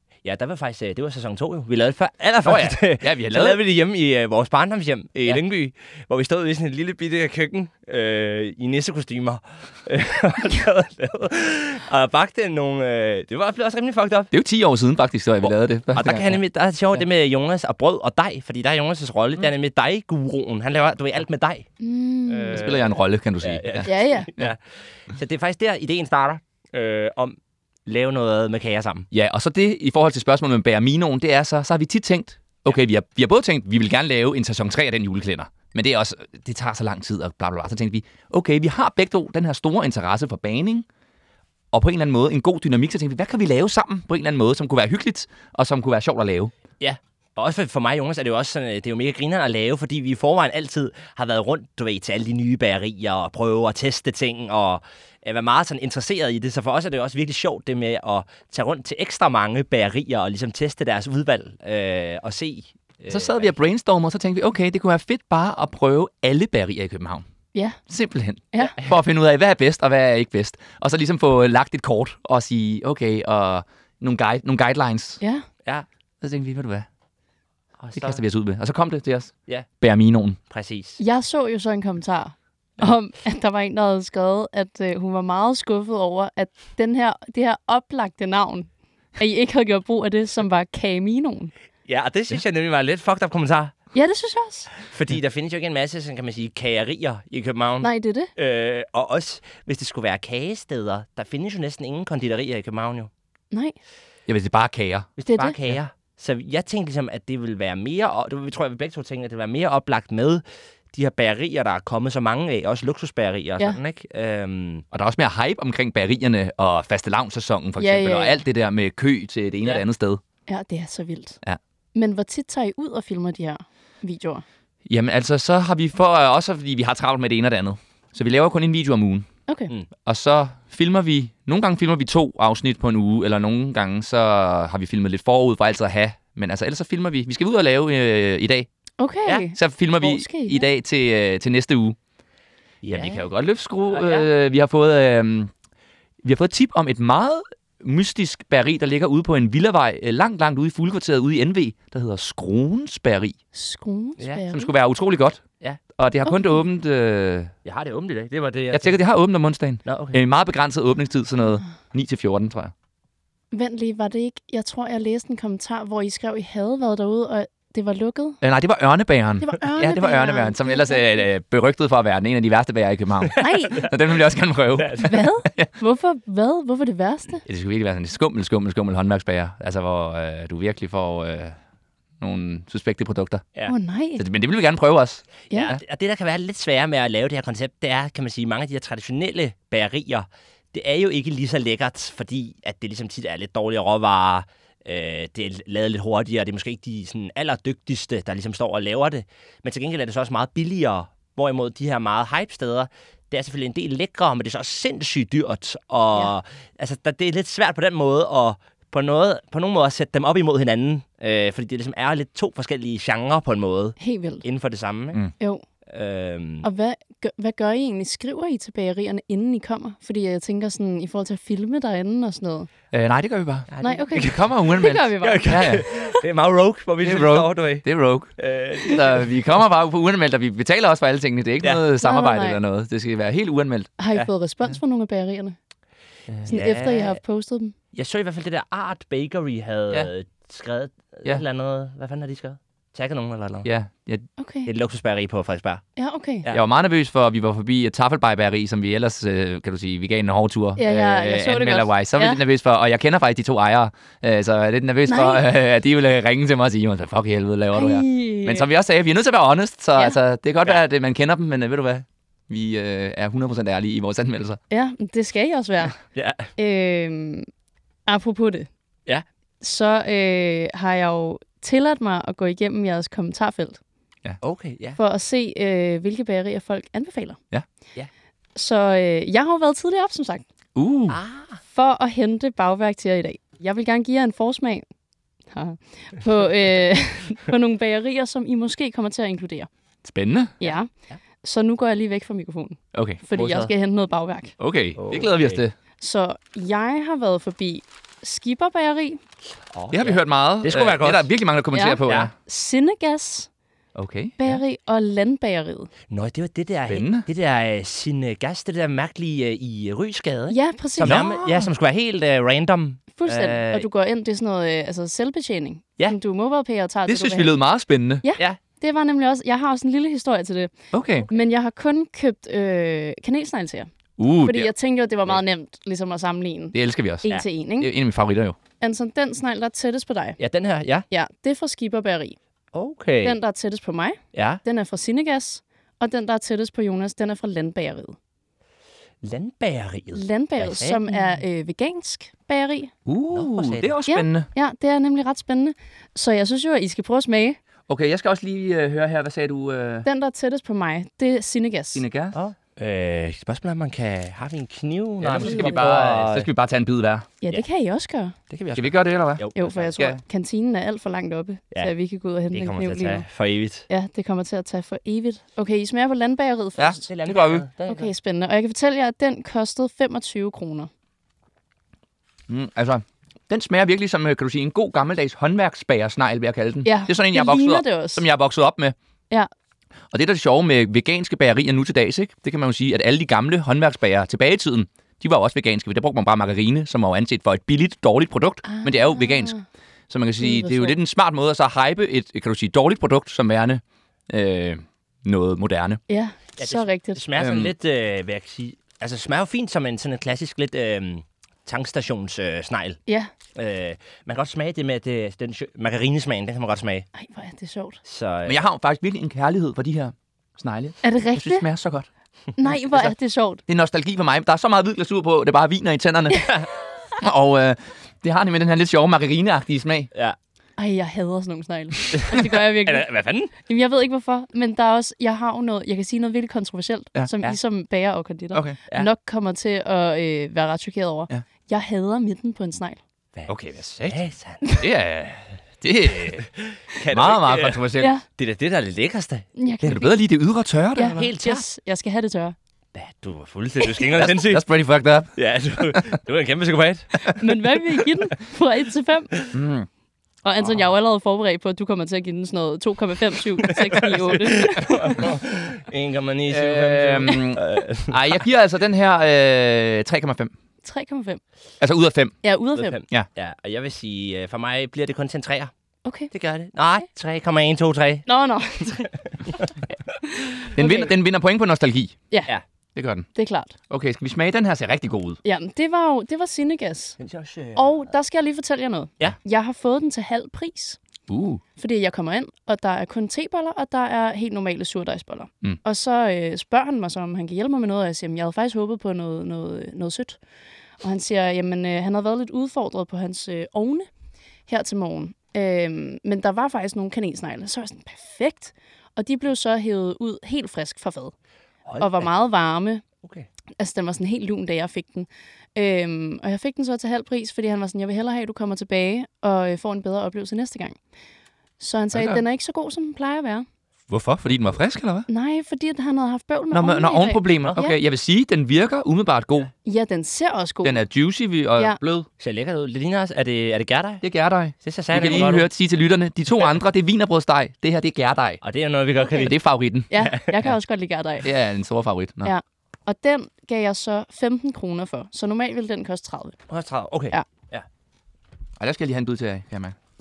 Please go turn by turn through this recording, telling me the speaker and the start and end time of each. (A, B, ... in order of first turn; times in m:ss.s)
0:00.2-0:14.3 A
0:02.4-0:03.6 B
0:14.3-0:16.4 B
0:15.4-0:21.7 A
0:21.8-0:22.6 C
0:22.3-0:29.1 A
0:22.5-0:24.5 B
0:23.8-0:24.3 C
0:29.1-0:40.8 B
0:41.7-0:46.5 B
0:46.8-1:03.5 A
1:03.1-1:07.2 B
1:07.5-1:07.8 C
1:07.9-1:15.2 B
1:08.6-1:08.9 A
1:15.2-1:15.4 C
1:16.2-1:16.9 B
1:17.8-1:18.2 A
1:17.9-1:20.4 B
1:20.5-1:21.0 A
1:21.0-1:31.5 C
1:31.9-1:33.7 A
1:33.9-1:34.7 C
1:34.8-1:43.1 A
1:37.8-1:38.3 C
1:44.3-1:45.1 B
1:45.2-1:54.8 A
1:45.2-1:45.6 C
1:54.9-2:00.2 B
1:57.8-1:58.4 C
2:00.5-2:01.4 C
2:01.9-2:04.4 C
2:04.8-2:09.3 B
2:10.0-2:18.7 B
2:19.0-2:20.7 C
2:19.5-2:22.0 B
2:22.8-2:23.2 A
2:22.9-2:25.5 B
2:23.9-2:24.3 A
2:26.2-2:33.4 B
2:33.5-2:34.7 C
2:34.2-2:34.4 A
2:34.5-2:35.4 B
2:36.0-2:37.5 B
2:37.6-2:39.0 A
2:38.7-2:42.7 B
2:39.8-2:40.2 A
2:43.5-2:48.4 C
2:48.4-2:55.7 B
2:49.4-2:51.1 C
2:53.4-2:53.9 C
2:53.4-2:53.9 A
2:54.8-2:55.2 A
2:55.0-2:57.4 C
2:57.4-3:01.6 B
3:02.2-3:03.4 B
3:03.6-3:04.2 C
3:04.2-3:05.8 B
3:05.5-3:35.2 A
3:34.0-3:34.4 C
3:35.9-3:36.7 A
3:36.6-3:42.7 C
3:42.9-3:45.8 B
3:43.7-3:44.5 A
3:43.8-3:45.5 C
3:45.2-3:47.8 A
3:47.0-3:53.9 B
3:48.4-3:49.3 A
3:52.0-3:52.6 C
3:54.0-3:55.6 C
3:56.3-3:56.5 B
3:56.4-3:57.7 C
3:56.5-3:57.2 A
3:57.9-4:03.7 A
4:03.6-4:04.2 B
4:04.4-4:04.7 C
4:04.6-4:05.8 A
4:06.0-4:06.5 C
4:06.5-4:24.6 B
4:10.8-4:12.4 C
4:15.1-4:15.4 C
4:17.7-4:18.7 C
4:24.7-4:26.0 C
4:26.1-4:26.5 A
4:26.6-4:27.5 C
4:28.1-4:28.7 C
4:29.6-4:33.8 C
4:34.4-4:35.0 A
4:35.0-4:37.4 C
4:38.5-4:40.4 C
4:40.8-4:41.2 B
4:41.1-4:41.6 A
4:41.7-4:44.8 C
4:45.5-4:49.7 C
4:50.0-4:50.6 B
4:50.6-4:50.9 C
4:50.6-4:51.2 A
4:51.4-4:54.5 C
4:52.9-4:53.2 B
4:53.3-4:53.7 A
4:54.6-4:55.7 B
4:55.0-4:55.6 A
4:56.0-4:59.2 C
4:59.7-5:01.3 A
4:59.9-5:02.3 B
5:01.7-5:03.5 C
5:03.9-5:04.4 B
5:04.4-5:05.9 C
5:06.1-5:13.9 A
5:06.9-5:07.3 B
5:10.5-5:11.2 C
5:11.0-5:11.7 B
5:13.2-5:17.6 C
5:17.1-5:18.2 B
5:18.2-5:20.7 C
5:20.9-5:21.3 B
5:21.3-5:23.9 C
5:24.2-5:24.7 B
5:24.4-5:27.9 C
5:26.7-5:28.6 B
5:28.8-5:30.4 C
5:30.4-5:31.0 A
5:31.1-5:32.4 C
5:32.7-5:33.4 A
5:33.2-5:38.2 C
5:34.3-5:34.6 A
5:39.2-5:41.3 A
5:40.1-5:42.9 C
5:43.0-5:44.5 B
5:43.3-5:44.0 A
5:44.1-5:47.6 C
5:47.9-5:50.1 B
5:50.0-5:52.0 C
5:51.9-5:52.4 B
5:52.3-5:56.5 A
5:55.2-5:57.3 B
5:55.4-5:55.8 C
5:57.4-5:58.4 C
5:58.5-6:00.0 A
5:58.7-6:00.2 B
5:59.6-6:03.3 C
6:02.5-6:03.9 A
6:03.9-6:07.1 C
6:06.8-6:07.6 B
6:07.1-6:08.1 A
6:07.9-6:10.9 C
6:12.5-6:18.9 B
6:16.8-6:18.2 C
6:20.1-6:29.6 B
6:28.6-6:29.6 C
6:30.1-6:36.0 B
6:30.4-6:31.0 C
6:36.1-6:37.2 C
6:36.6-6:43.0 A
6:37.4-6:37.7 B
6:43.5-6:47.1 A
6:47.1-6:48.0 C
6:48.0-6:48.6 A
6:48.4-6:52.1 B
6:51.0-6:51.7 C
6:52.6-6:53.6 C
6:53.7-6:56.5 B
6:57.2-7:00.1 B
7:00.8-7:13.0 C
7:02.1-7:03.5 A
7:13.3-7:14.7 A
7:13.5-7:16.5 B
7:16.3-7:19.5 A
7:17.1-7:18.1 B
7:18.0-7:18.2 C
7:19.6-7:20.2 C
7:19.8-7:21.2 B
7:21.0-7:22.5 C
7:21.0-7:21.6 A
7:22.9-7:24.6 A
7:24.2-7:25.3 B
7:25.4-7:28.0 A
7:27.3-7:29.4 C
7:29.5-7:29.9 B
7:30.4-7:35.2 C
7:33.6-7:38.4 A
7:36.5-7:40.5 B
7:40.8-7:41.4 C
7:41.8-7:42.4 B
7:42.4-7:43.0 C
7:42.7-7:45.7 A
7:46.0-7:46.3 C
7:46.3-7:48.2 A
7:48.2-7:49.2 C
7:48.8-7:49.7 A
7:50.4-7:51.1 C
7:50.7-7:52.2 B
7:53.0-7:53.3 B
7:53.3-7:53.7 C
7:53.9-7:55.4 B
7:55.4-7:57.2 C
7:57.2-7:58.0 A
7:57.7-8:01.0 C
8:01.3-8:01.6 B
8:01.8-8:10.4 C
8:11.0-8:14.1 C
8:14.7-8:21.3 C
8:21.8-8:22.3 A
8:22.0-8:23.0 C
8:23.8-8:31.0 C
8:31.8-8:33.6 C
8:32.1-8:32.4 B
8:34.1-8:35.3 B
8:35.3-8:38.0 C
8:36.7-8:39.7 B
8:39.8-8:41.1 C
8:40.8-8:42.3 B
8:42.4-8:44.2 A
8:44.2-8:48.6 B
8:44.7-8:45.7 A
8:48.6-8:49.5 A
8:49.3-8:49.5 C
8:49.4-8:50.1 B
8:50.1-8:51.5 C
8:50.1-8:50.5 A
8:51.4-8:52.5 B
8:52.4-8:56.6 C
8:56.7-8:57.8 A
8:58.8-8:59.9 B